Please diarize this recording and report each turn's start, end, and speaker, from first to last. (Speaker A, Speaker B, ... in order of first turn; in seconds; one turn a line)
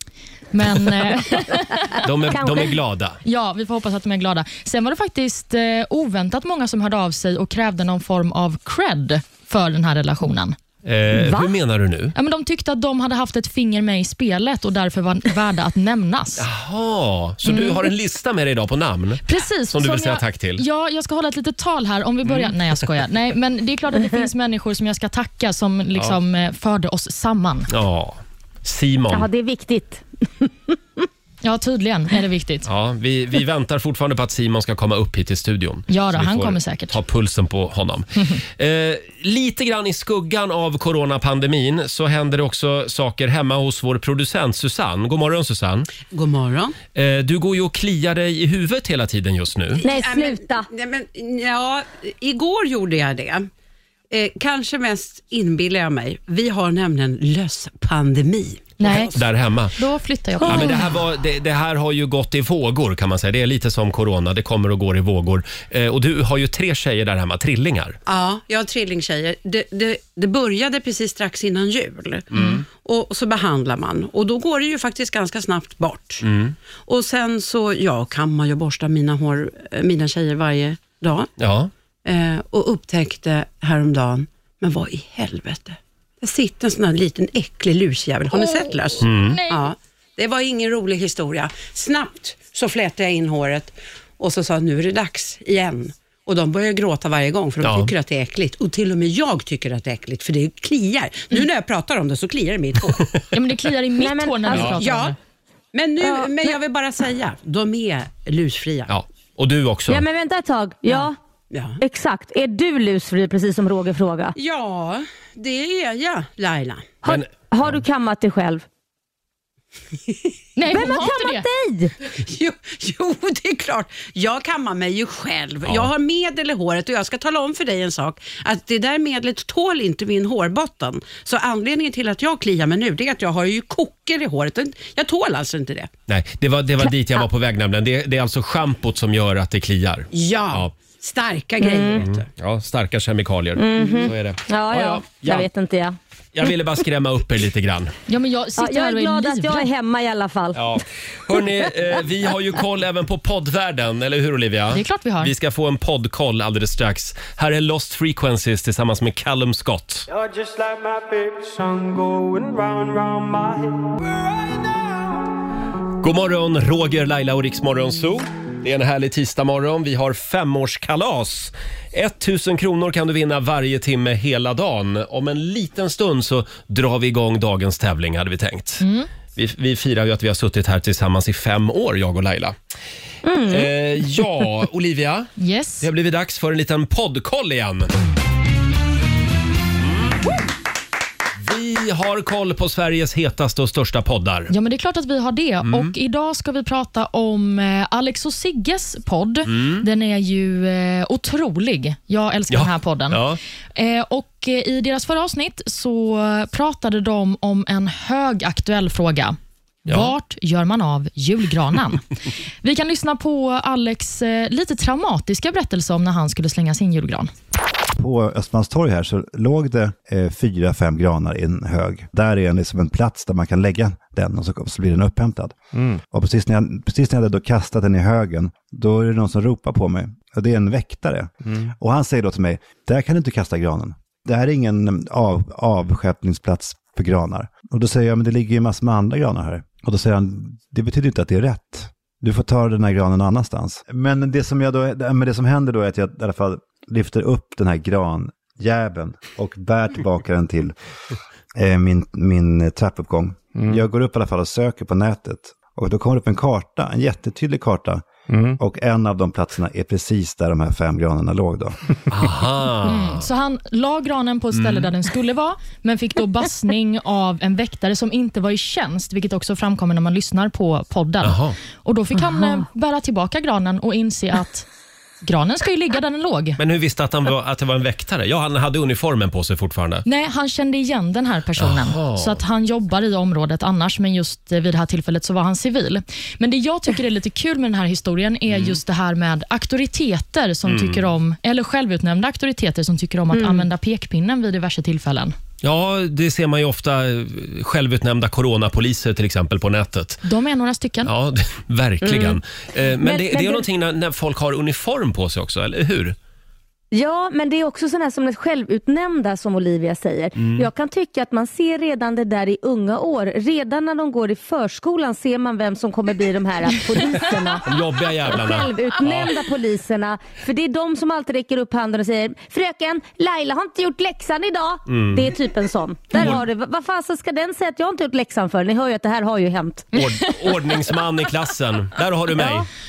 Speaker A: 0.5-2.0
Speaker B: 2.0-3.2
Speaker C: 2.3-2.7
Speaker A: 3.2-10.6
Speaker B: 10.8-12.1
Speaker C: 11.2-11.5
Speaker A: 12.2-16.5
Speaker B: 16.4-20.6
Speaker A: 17.5-17.8
Speaker A: 19.3-27.7
Speaker B: 22.2-22.6
Speaker B: 27.7-29.3
Speaker C: 29.1-31.0
Speaker A: 31.4-32.7
Speaker B: 32.7-45.9
Speaker A: 35.9-37.0
Speaker D: 46.1-46.8
Speaker B: 46.9-49.8
Speaker D: 49.8-53.5
Speaker C: 49.8-50.7
Speaker D: 54.1-59.1
Speaker A: 58.8-59.2
Speaker B: 58.9-59.8
Speaker A: 59.8-60.9
Speaker B: 60.4-68.0
Speaker D: 68.1-76.2
Speaker B: 72.3-72.7
Speaker B: 76.2-76.6
Speaker D: 76.8-81.3
Speaker B: 81.4-81.7
Speaker D: 82.0-103.0
Speaker A: 88.4-89.7
Speaker B: 89.0-89.4
Speaker B: 97.6-97.9
Speaker A: 103.3-105.2
Speaker C: 104.0-104.8
Speaker D: 104.8-105.2
Speaker D: 105.7-108.9
Speaker C: 106.0-106.5
Speaker B: 108.9-110.0
Speaker C: 109.9-111.2
Speaker D: 110.9-111.8
Speaker C: 111.8-114.3
Speaker D: 114.4-117.0
Speaker C: 117.0-118.7
Speaker B: 117.1-117.8
Speaker A: 120.6-121.5
Speaker C: 120.7-121.9
Speaker D: 122.2-135.9
Speaker B: 136.1-140.7
Speaker D: 140.1-142.3
Speaker C: 141.6-142.1
Speaker B: 142.0-145.5
Speaker C: 143.6-146.0
Speaker B: 146.3-147.9
Speaker A: 148.1-149.7
Speaker C: 148.6-150.7
Speaker B: 150.6-160.1
Speaker A: 154.7-155.3
Speaker E: 160.1-164.7
Speaker B: 166.0-182.6
Speaker A: 178.8-179.1
Speaker C: 183.2-183.7
Speaker B: 183.5-187.9
Speaker A: 185.4-185.9
Speaker B: 189.8-190.3
Speaker B: 191.4-194.5
Speaker A: 194.5-203.2
Speaker B: 195.7-195.9
Speaker B: 199.5-199.9
Speaker B: 202.5-203.4
Speaker A: 203.8-212.1
Speaker B: 209.9-210.1
Speaker A: 212.6-217.3
Speaker F: 218.0-250.8
Speaker F: 251.6-261.8
Speaker B: 262.1-263.3
Speaker A: 262.8-274.7
Speaker B: 264.5-264.9
Speaker B: 271.2-271.6
Speaker A: 275.2-276.6
Speaker B: 276.6-280.0
Speaker A: 280.1-295.4
Speaker B: 281.6-282.4
Speaker B: 288.5-288.8
Speaker B: 290.7-291.1
Speaker C: 293.3-293.7
Speaker B: 295.6-300.2
Speaker A: 300.2-301.1
Speaker B: 301.0-306.2
Speaker C: 302.0-302.4
Speaker C: 303.0-303.7
Speaker C: 306.9-317.6
Speaker B: 310.4-310.7
Speaker B: 317.6-319.3
Speaker C: 318.3-329.9
Speaker B: 324.9-325.3
Speaker B: 326.2-326.4
Speaker A: 329.9-330.7
Speaker B: 329.9-332.7
Speaker C: 332.4-332.7